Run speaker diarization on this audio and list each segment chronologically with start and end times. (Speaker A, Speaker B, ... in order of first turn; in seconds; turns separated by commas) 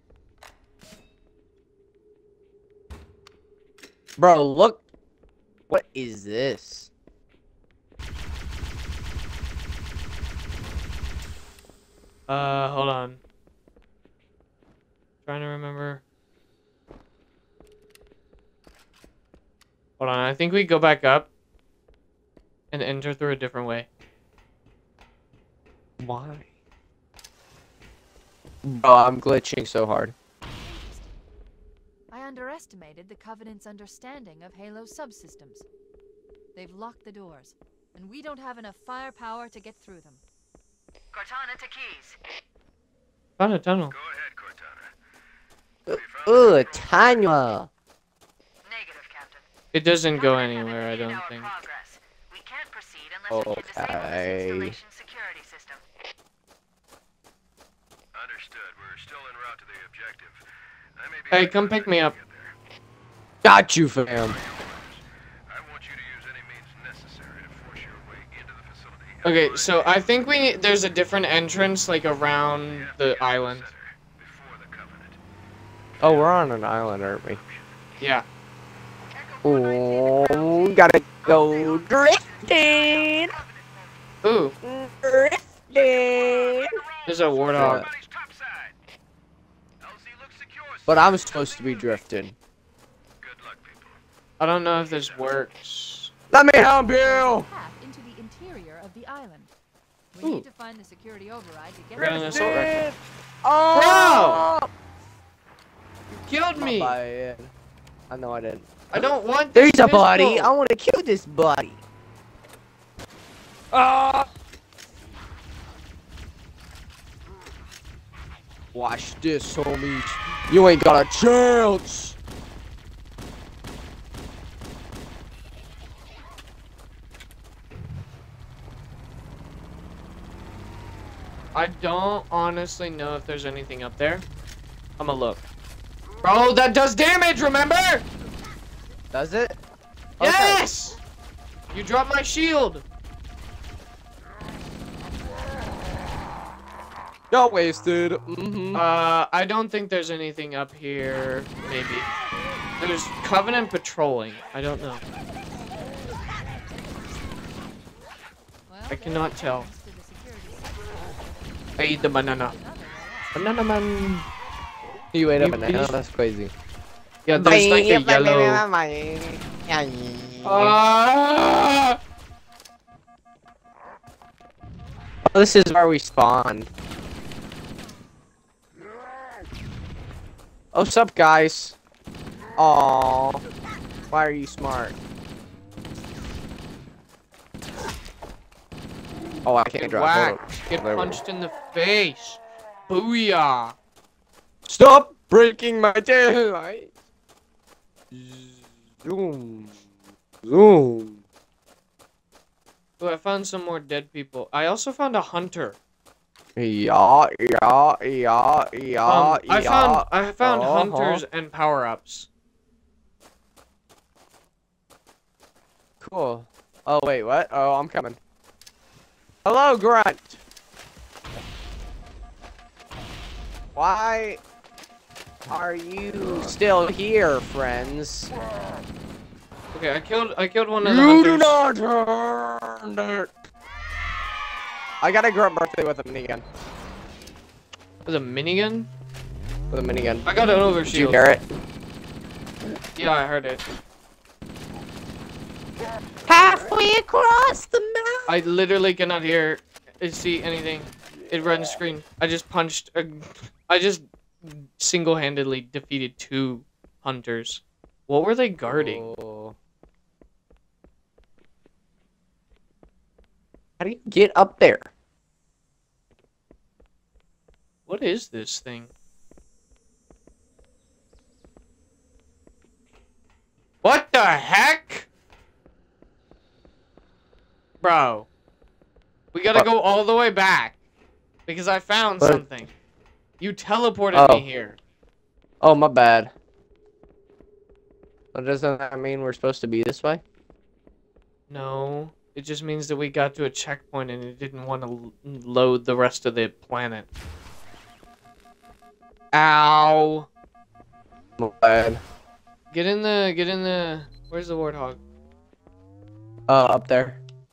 Speaker A: 4.2-4.8, Speaker A: 5.7-6.9, Speaker B: 12.3-13.2, Speaker B: 15.2-16.0, Speaker B: 20.0-21.3, Speaker B: 22.7-23.9, Speaker A: 26.0-26.4, Speaker A: 28.6-30.1, Speaker C: 30.6-31.1, Speaker C: 32.1-35.6, Speaker C: 36.5-40.2, Speaker C: 41.1-42.2, Speaker B: 43.4-43.9, Speaker D: 43.9-44.9, Speaker A: 45.9-47.7, Speaker D: 45.9-47.3, Speaker C: 48.6-49.5, Speaker B: 49.7-51.5, Speaker C: 50.1-55.8, Speaker A: 53.3-54.8, Speaker D: 58.1-60.4, Speaker D: 61.0-62.5, Speaker B: 61.3-62.1, Speaker A: 63.4-64.4, Speaker D: 64.3-69.9, Speaker B: 69.2-73.7, Speaker D: 72.4-75.2, Speaker D: 76.0-76.3, Speaker A: 76.0-77.4, Speaker D: 77.1-77.7, Speaker B: 78.0-78.2, Speaker C: 79.2-80.1, Speaker A: 79.4-83.3, Speaker C: 81.2-83.7, Speaker B: 84.2-84.5, Speaker A: 84.6-86.7, Speaker D: 85.8-88.8, Speaker B: 87.0-87.8, Speaker A: 87.6-87.9, Speaker D: 89.8-92.0, Speaker A: 90.9-92.3, Speaker D: 93.2-94.0, Speaker B: 94.4-96.1, Speaker D: 94.9-95.2, Speaker A: 96.3-97.5, Speaker C: 97.0-99.5, Speaker C: 100.1-102.7, Speaker B: 102.0-102.7, Speaker A: 102.0-104.7, Speaker B: 103.7-104.4, Speaker B: 106.1-107.0, Speaker A: 106.5-107.5, Speaker A: 108.1-111.8, Speaker B: 108.9-110.5, Speaker A: 113.7-114.3, Speaker A: 118.7-122.2, Speaker B: 131.5-134.2, Speaker B: 135.0-135.4, Speaker B: 136.2-138.1, Speaker A: 139.1-139.6, Speaker A: 140.2-140.6, Speaker B: 140.2-141.0, Speaker B: 141.7-142.8, Speaker A: 147.3-148.8, Speaker B: 148.7-152.1, Speaker B: 152.8-155.0, Speaker C: 158.7-163.5, Speaker B: 158.9-159.7, Speaker B: 161.8-162.5, Speaker B: 163.3-164.2, Speaker A: 165.1-166.5, Speaker B: 165.4-166.0, Speaker B: 167.2-168.6, Speaker A: 167.3-170.8, Speaker B: 170.4-172.0, Speaker A: 175.3-176.7, Speaker A: 180.7-181.8, Speaker A: 182.6-183.4, Speaker A: 184.1-184.9, Speaker A: 189.4-191.2, Speaker B: 189.8-193.8, Speaker A: 194.7-196.9, Speaker A: 198.1-199.8, Speaker A: 200.4-201.2, Speaker B: 203.0-205.8, Speaker A: 206.6-211.2, Speaker B: 209.1-212.3, Speaker A: 216.0-218.2, Speaker A: 219.4-220.4, Speaker A: 223.8-224.4, Speaker A: 225.5-228.3, Speaker B: 229.7-231.5, Speaker A: 230.8-233.3, Speaker A: 235.0-236.4, Speaker B: 238.0-238.9, Speaker A: 239.7-241.4, Speaker B: 240.2-241.2, Speaker B: 242.9-243.6, Speaker A: 246.2-248.3, Speaker B: 248.3-259.1, Speaker A: 258.7-259.6, Speaker A: 263.8-264.9, Speaker B: 267.9-268.9, Speaker B: 273.8-275.1, Speaker B: 277.8-278.3, Speaker B: 279.3-280.7, Speaker B: 281.4-282.7, Speaker B: 283.4-284.8, Speaker A: 284.1-284.4, Speaker A: 285.6-286.3, Speaker A: 288.3-290.2, Speaker B: 291.5-297.1, Speaker B: 299.3-300.3, Speaker A: 301.4-302.0, Speaker B: 302.7-305.0, Speaker A: 306.5-307.2